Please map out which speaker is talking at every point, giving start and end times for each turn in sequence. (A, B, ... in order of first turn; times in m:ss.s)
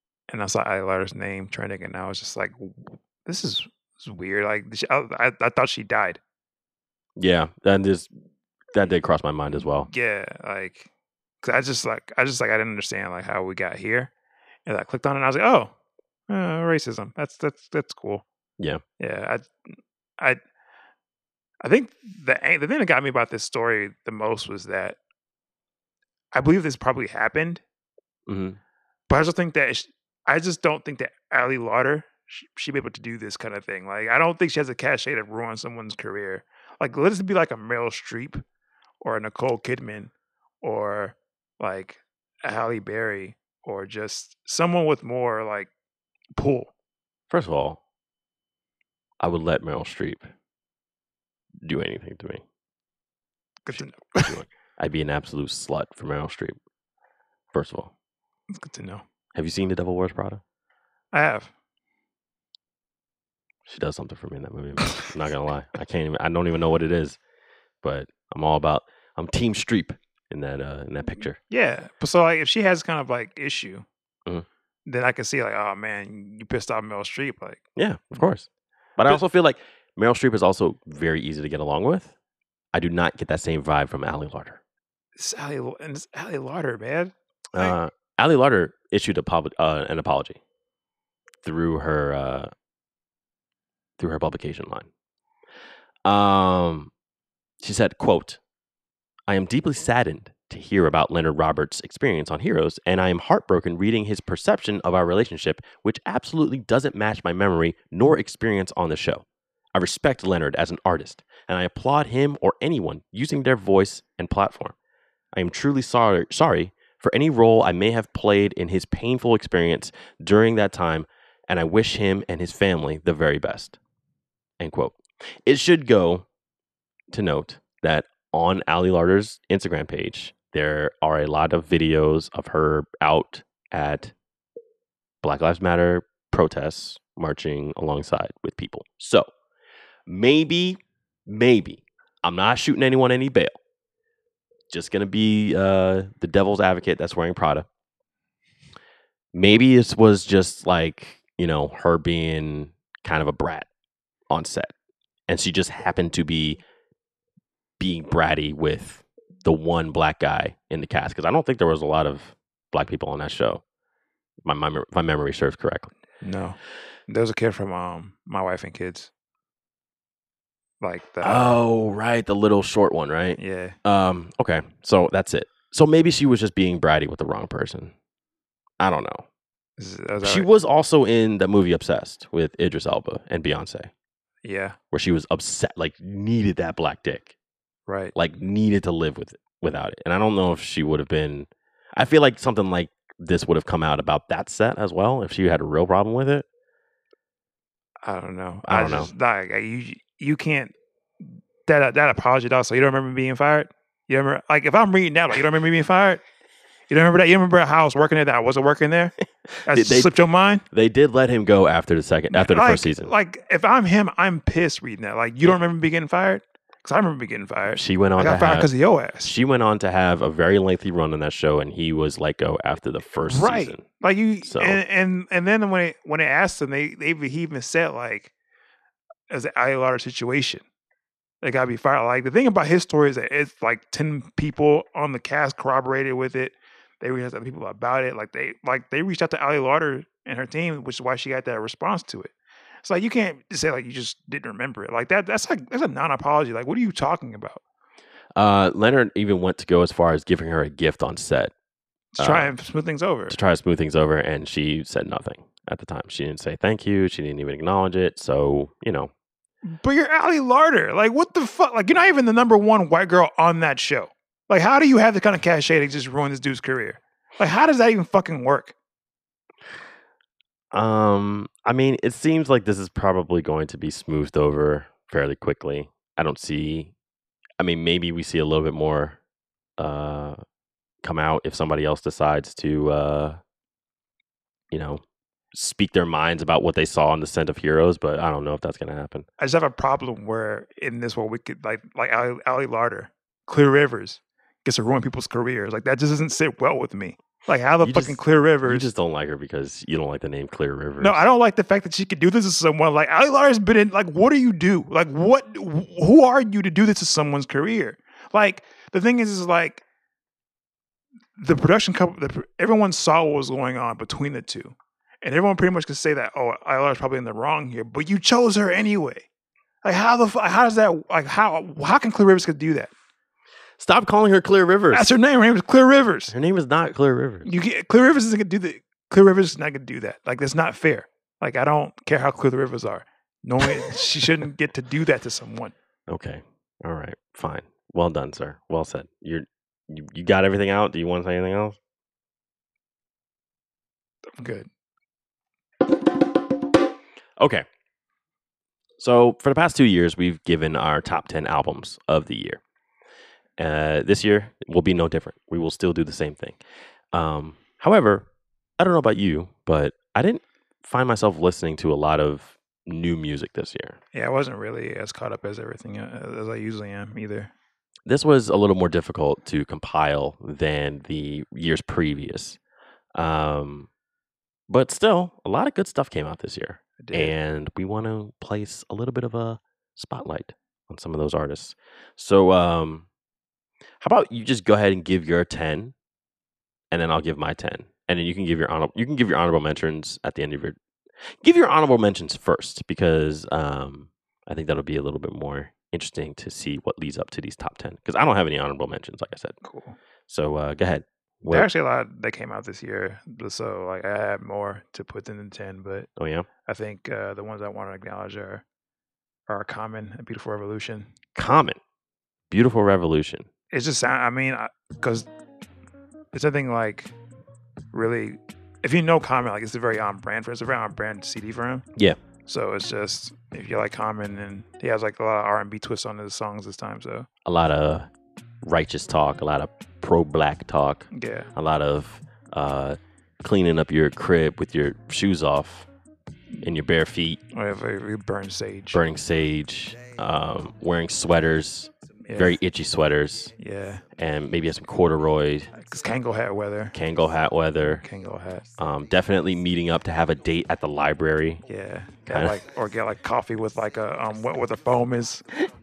0:00.3-0:06.2 A
0:07.2-0:08.1 B
0:08.7-0:09.9 B
0:09.9-0:10.9 A
0:11.4-0:14.1 A
0:14.7-0:15.7 A
0:16.3-0:18.2 A
0:19.0-0:19.5 A
0:21.6-0:25.0 A
0:26.3-0:27.6 A
0:28.3-0:28.6 B
0:29.1-0:38.4 A
0:39.0-0:45.7 A
0:46.4-0:46.7 A
0:47.3-0:47.8 B
0:49.2-0:50.3 B
0:51.6-0:52.4 B
0:53.6-0:54.3 A
0:53.7-0:56.6 B
0:57.5-0:57.9 B
0:58.5-0:59.0 A
0:59.4-1:00.4 B
1:01.1-1:01.5 A
1:03.7-1:07.2 B
1:07.8-1:11.4 B
1:11.5-1:13.9 A
1:14.9-1:17.6 A
1:17.8-1:22.2 B
1:22.7-1:24.6 B
1:25.2-1:27.8 A
1:27.5-1:30.4 B
1:31.4-1:32.5 B
1:34.0-1:34.9 B
1:36.0-1:36.9 B
1:37.6-1:38.4 B
1:39.3-1:54.8 B
1:55.3-2:03.8 B
2:04.6-2:06.3 B
2:07.1-2:14.1 B
2:15.2-2:19.3 B
2:20.1-2:23.6 B
2:24.7-2:27.7 B
2:29.3-2:33.7 B
2:34.3-2:34.7 B
2:35.3-2:36.6 B
2:37.8-2:43.6 B
2:44.4-2:45.9 B
2:46.2-2:49.1 A
2:50.8-2:51.6 A
2:51.2-2:57.9 B
2:53.4-2:53.8 A
2:58.8-2:59.3 B
2:59.8-3:00.5 A
3:00.2-3:03.9 B
3:04.4-3:04.8 A
3:04.9-3:07.4 B
3:07.9-3:08.1 A
3:08.2-3:16.5 B
3:18.0-3:26.2 A
3:18.6-3:19.1 B
3:26.9-3:29.1 A
3:29.7-3:30.6 A
3:29.7-3:30.1 B
3:30.7-3:33.1 B
3:32.3-3:39.3 A
3:37.7-3:38.7 B
3:39.2-3:43.9 B
3:43.3-3:48.3 A
3:44.4-3:44.8 B
3:49.3-3:50.6 A
3:51.4-4:02.3 A
4:02.8-4:07.6 A
4:08.4-4:11.5 B
4:12.2-4:13.4 A
4:12.2-4:12.5 B
4:13.3-4:19.1 B
4:19.7-4:28.7 A
4:30.7-4:36.9 B
4:37.6-4:39.2 B
4:39.8-4:40.4 B
4:41.0-4:43.4 B
4:44.7-4:49.3 B
4:49.4-4:58.9 A
4:57.8-5:01.3 B
5:01.0-5:09.8 A
5:11.4-5:19.3 A
5:19.8-5:22.9 A
5:23.8-5:25.1 B
5:24.9-5:26.3 A
5:26.3-5:27.5 B
5:27.4-5:35.7 A
5:36.1-5:41.8 B
5:44.4-5:44.7 A
5:47.4-5:47.7 B
5:49.0-5:52.6 B
5:53.6-5:56.6 B
5:57.1-5:58.3 B
5:58.8-6:04.0 B
6:04.1-6:07.5 A
6:08.1-6:12.6 B
6:13.1-6:13.9 B
6:14.7-6:23.1 B
6:17.0-6:17.4 A
6:24.0-6:26.0 B
6:26.9-6:30.8 B
6:31.4-6:39.6 B
6:39.6-6:40.0 A
6:40.3-6:41.7 B
6:41.5-6:46.1 A
6:46.2-6:46.5 B
6:46.7-6:48.6 A
6:49.5-6:51.1 A
6:51.4-6:51.8 B
6:52.5-6:53.5 B
6:53.7-6:55.3 A
6:56.3-6:57.1 A
6:57.9-7:01.9 A
7:02.5-7:07.3 A
7:07.4-7:08.1 B
7:08.6-7:15.9 B
7:11.1-7:11.5 A
7:16.6-7:17.4 B
7:17.5-7:19.0 A
7:18.9-7:23.5 B
7:22.3-7:22.6 A
7:23.6-7:24.0 A
7:24.2-7:25.7 B
7:25.7-7:27.0 A
7:26.9-7:28.0 B
7:28.0-7:28.6 A
7:28.8-7:31.6 B
7:31.7-7:35.4 A
7:32.3-7:32.6 B